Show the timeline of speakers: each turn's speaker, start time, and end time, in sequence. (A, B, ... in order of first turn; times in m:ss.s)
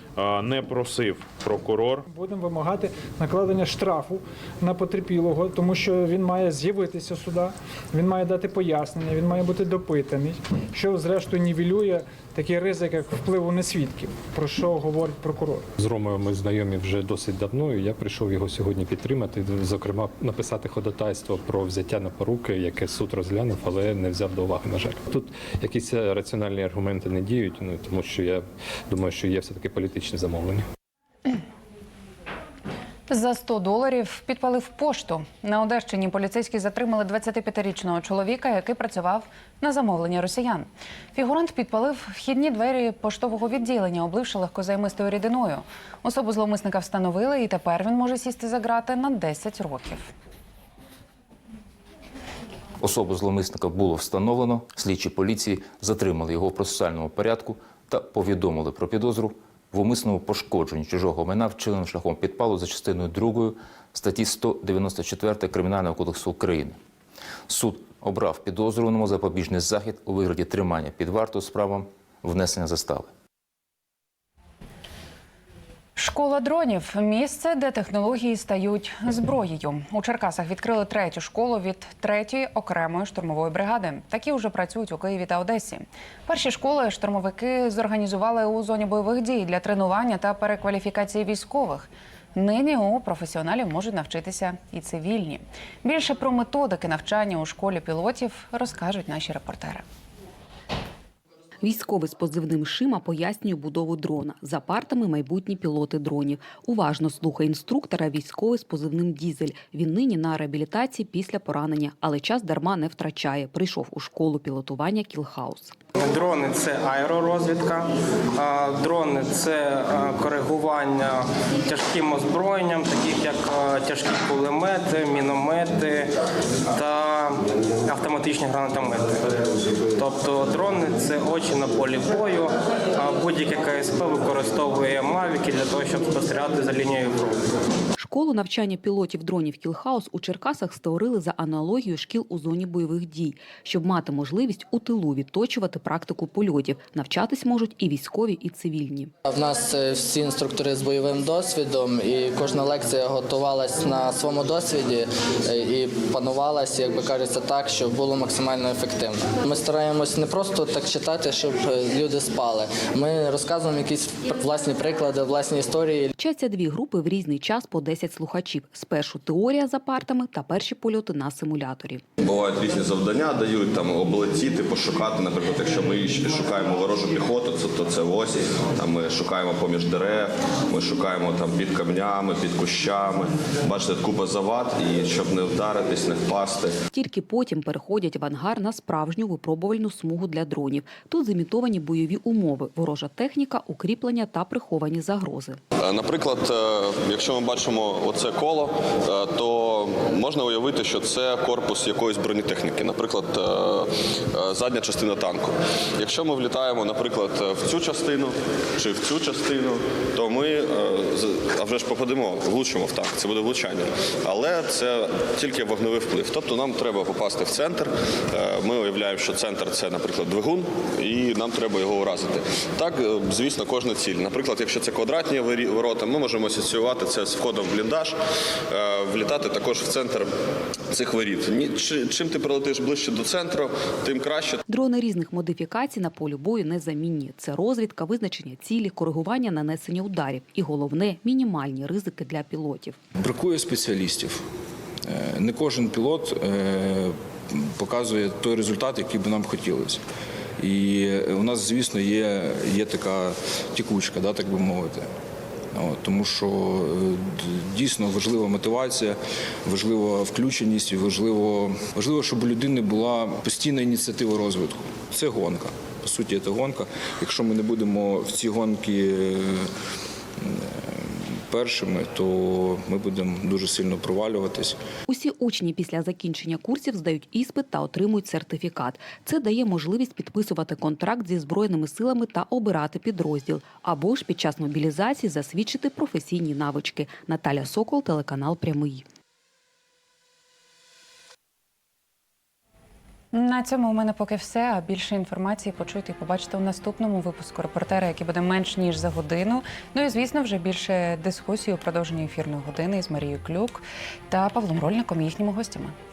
0:02.1-0:15.6 A
0:15.8-0:30.6 B
0:33.1-0:50.1 C
0:52.8-1:06.8 D
1:07.5-1:13.1 D
1:16.0-1:39.8 C
1:41.6-1:55.7 E
1:56.0-2:06.1 F
2:06.7-2:17.4 F
2:18.0-2:29.0 E
2:29.3-2:46.1 G
2:46.2-2:52.0 E
2:52.2-3:06.8 H
3:06.9-3:15.5 E
3:15.8-3:48.2 H
3:48.7-3:50.3 H
3:50.9-3:54.6 H
3:54.7-4:02.7 E
4:03.2-4:04.4 I
4:05.1-4:10.0 I
4:10.6-4:15.0 I
4:15.7-4:29.7 I
4:30.4-4:34.8 I
4:35.1-4:48.9 E
4:53.3-5:05.9 C